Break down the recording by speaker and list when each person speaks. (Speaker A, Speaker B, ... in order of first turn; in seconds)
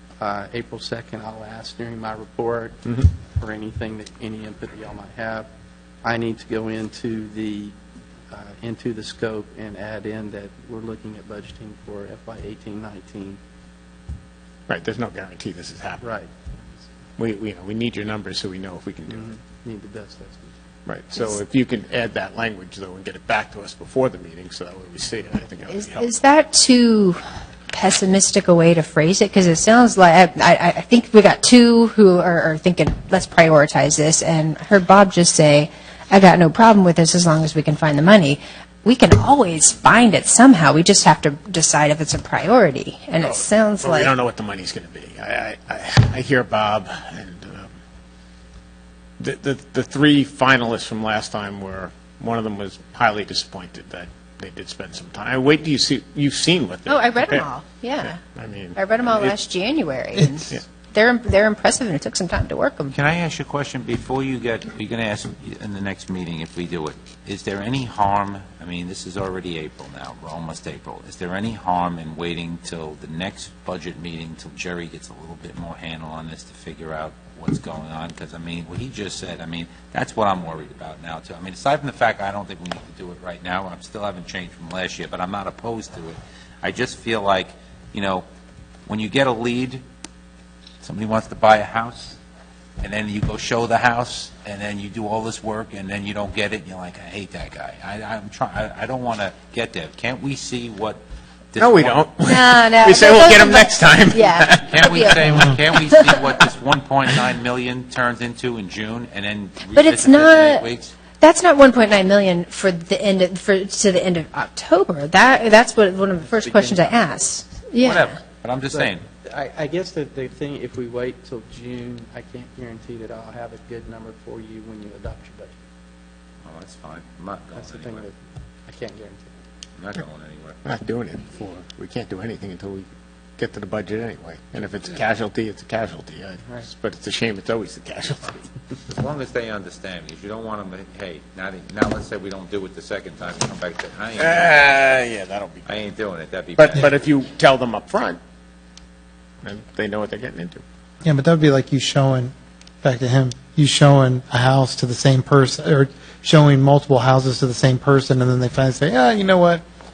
Speaker A: 0.2-5.5, 6.0-7.8, 8.3-13.4, 16.0-16.3, 19.1-20.6, 116.3-117.3, 118.7-125.6, 127.5-129.3
Speaker B: 14.7-16.0, 17.2-19.3, 20.9-26.1, 43.2-47.7, 49.2-57.5, 58.0-59.4, 101.6-105.7, 130.6-138.5, 144.2-145.8, 146.6-148.2, 149.4-150.6
Speaker C: 25.7-27.2, 27.7-44.1, 56.9-58.2, 58.8-63.0, 102.2-106.2, 109.7-110.7, 111.2-118.2
Speaker D: 62.9-88.3, 88.9-89.8, 90.8-92.2, 92.8-101.0, 101.5-102.1, 104.7-110.9, 117.8-119.0, 126.5-128.1, 129.8-130.6, 138.9-144.6, 145.7-147.0
Speaker E: 151.0-159.6